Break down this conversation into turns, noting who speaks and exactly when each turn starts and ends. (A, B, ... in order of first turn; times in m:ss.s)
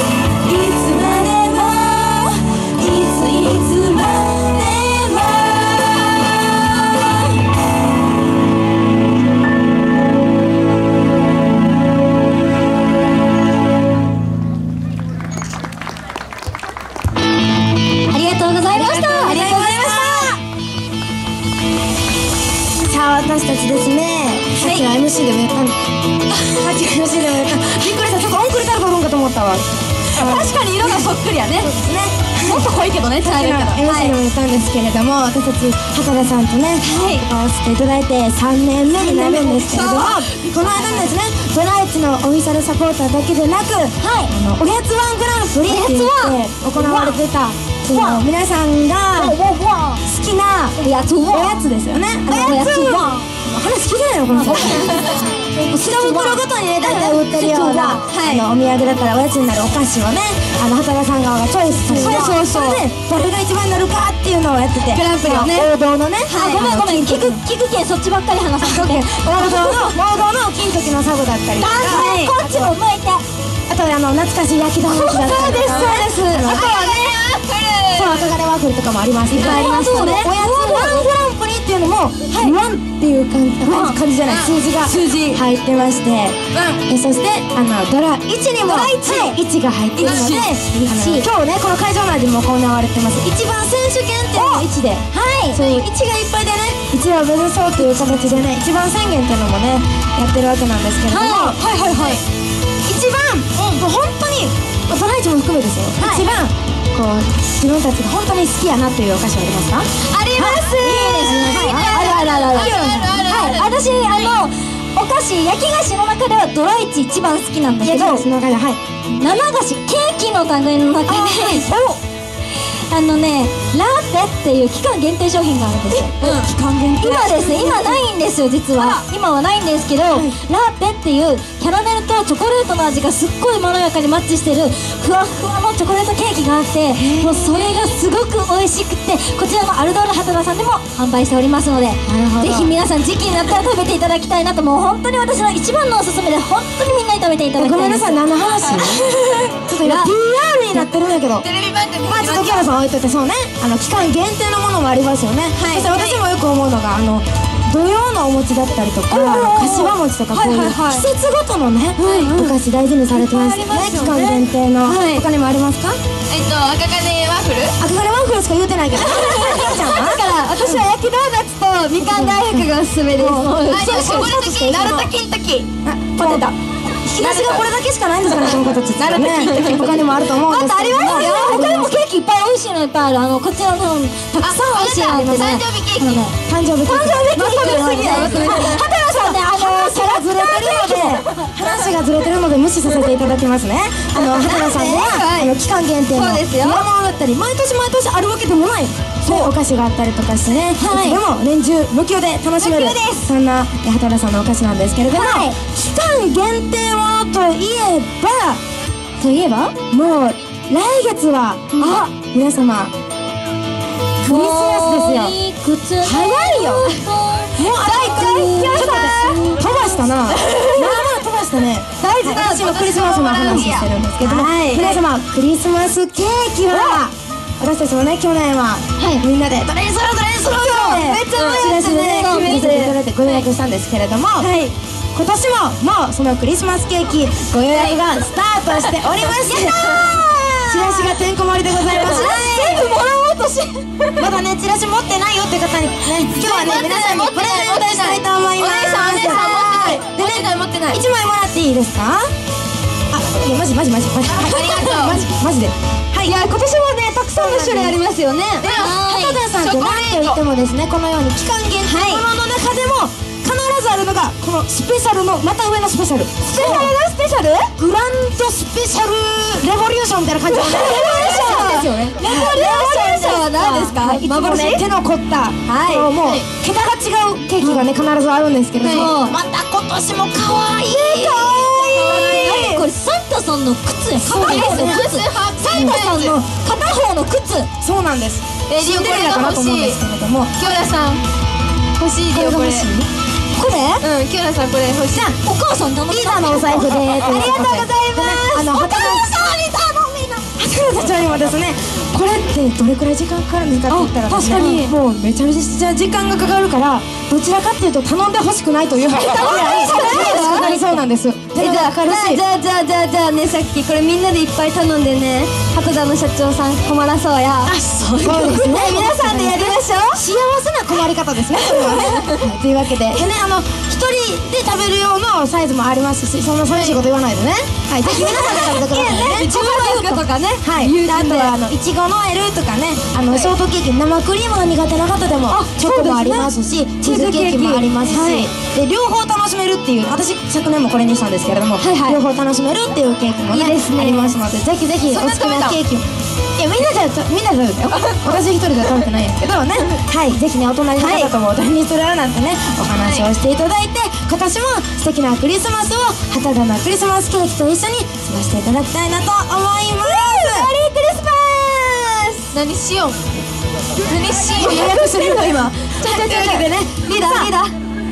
0:00.4-0:07.4 A
0:18.1-0:20.3 A
0:18.7-0:20.4 B
0:22.8-0:25.7 B
0:26.3-0:32.7 B
0:30.1-0:31.7 C
0:32.4-0:34.0 C
0:33.2-0:49.4 B
0:36.8-0:37.2 C
0:39.0-0:40.0 A
0:39.2-0:41.0 C
0:44.0-0:44.3 A
0:45.6-0:47.2 A
0:47.9-0:48.2 A
0:49.2-0:50.0 A
0:50.0-1:07.4 B
0:50.8-0:51.7 A
0:52.3-0:53.2 A
0:54.3-0:58.4 A
0:54.7-0:55.2 C
1:01.9-1:02.8 A
1:02.0-1:02.4 C
1:04.9-1:05.7 C
1:05.2-1:05.6 A
1:06.2-1:09.9 A
1:08.6-1:12.7 B
1:11.5-1:13.2 A
1:13.7-1:17.1 B
1:14.8-1:17.0 A
1:15.3-1:18.3 C
1:17.9-1:41.6 B
1:19.3-1:21.1 A
1:19.4-1:19.7 C
1:22.3-1:22.6 A
1:23.6-1:24.0 A
1:24.2-1:25.4 C
1:26.5-1:26.8 C
1:28.6-1:29.4 A
1:30.0-1:30.5 C
1:30.0-1:31.3 A
1:34.3-1:35.7 A
1:41.1-1:42.2 A
1:41.7-1:42.2 C
1:42.8-1:49.9 B
1:46.0-1:46.3 A
1:50.1-1:54.3 C
1:50.3-1:58.3 A
1:50.4-1:53.2 B
1:57.8-1:58.8 B
1:59.1-2:01.7 A
2:01.1-2:02.0 B
2:02.5-2:06.4 A
2:06.2-2:06.6 C
2:06.2-2:08.0 B
2:07.0-2:28.2 A
2:10.1-2:10.4 B
2:17.0-2:17.7 B
2:22.0-2:22.7 B
2:27.6-2:29.1 B
2:28.8-2:30.1 A
2:29.6-2:31.5 B
2:31.4-2:32.7 C
2:32.0-2:46.0 B
2:35.6-2:36.1 A
2:35.8-2:36.2 C
2:39.1-2:39.9 A
2:40.3-2:41.0 C
2:42.0-2:42.5 A
2:43.3-2:44.4 C
2:43.4-2:44.2 A
2:44.8-2:45.2 A
2:46.3-2:47.8 C
2:47.8-2:50.8 B
2:49.0-2:55.1 A
2:52.0-2:54.4 B
2:53.6-2:55.7 C
2:55.8-2:56.5 B
2:56.2-2:56.5 A
2:57.0-2:57.6 A
2:57.1-3:02.0 B
2:59.0-3:00.0 C
3:00.4-3:11.5 A
3:04.4-3:06.2 C
3:04.9-3:05.6 B
3:06.3-3:28.6 B
3:07.5-3:08.8 C
3:14.1-3:15.5 A
3:16.1-3:16.8 A
3:20.8-3:21.2 A
3:22.6-3:23.3 A
3:25.1-3:25.6 A
3:29.2-3:32.9 B
3:31.8-3:32.1 A
3:34.2-3:39.9 A
3:34.2-3:35.4 B
3:36.0-3:37.0 B
3:37.5-3:54.5 B
3:37.8-3:39.3 C
3:40.3-3:41.1 C
3:42.2-3:44.9 C
3:42.2-3:42.5 A
3:43.4-3:43.7 A
3:44.2-3:45.0 A
3:50.6-3:51.7 C
3:50.8-3:53.0 A
3:54.4-3:54.7 A
3:55.1-4:03.0 B
3:59.4-4:01.2 A
4:01.8-4:04.3 A
4:04.2-4:12.3 B
4:06.3-4:11.0 C
4:13.1-4:16.5 B
4:14.4-4:15.2 C
4:16.2-4:19.4 A
4:17.0-4:20.4 C
4:17.3-4:18.0 B
4:18.8-4:26.9 B
4:21.8-4:22.2 A
4:26.5-4:27.7 A
4:26.6-4:26.9 C
4:27.8-4:42.8 B
4:30.5-4:34.8 A
4:30.9-4:31.8 C
4:35.7-4:36.1 A
4:37.6-4:37.8 A
4:38.8-4:39.4 A
4:38.8-4:42.7 C
4:40.9-4:47.7 A
4:44.2-4:45.1 B
4:44.2-4:46.4 C
4:45.7-4:46.1 B
4:47.8-4:50.7 B
4:48.7-4:50.0 C
4:50.6-4:51.2 C
4:52.0-4:52.9 C
4:52.2-4:53.1 B
4:53.6-4:54.0 A
4:54.0-4:55.3 C
4:55.4-5:00.5 A
4:56.1-4:59.4 B
5:00.6-5:12.4 B
5:03.9-5:04.9 C
5:04.3-5:04.9 A
5:09.1-5:11.0 A
5:09.5-5:10.5 C
5:11.6-5:20.2 A
5:11.6-5:12.0 C
5:17.6-5:29.6 B
5:21.8-5:22.2 C
5:22.0-5:22.3 A
5:28.0-5:31.5 A
5:28.5-5:30.5 C
5:30.6-5:46.0 B
5:35.5-5:36.5 A
5:37.0-5:38.5 A
5:41.8-5:42.2 A
5:43.5-5:44.3 A
5:43.7-5:44.0 C
5:45.1-5:45.8 C
5:46.6-6:00.7 B
5:47.9-5:48.4 C
5:51.0-5:51.3 A
5:53.0-5:53.3 C
6:00.0-6:02.5 A
6:02.5-6:03.2 C
6:04.0-6:07.7 C
6:04.5-6:07.5 B
6:07.1-6:07.5 A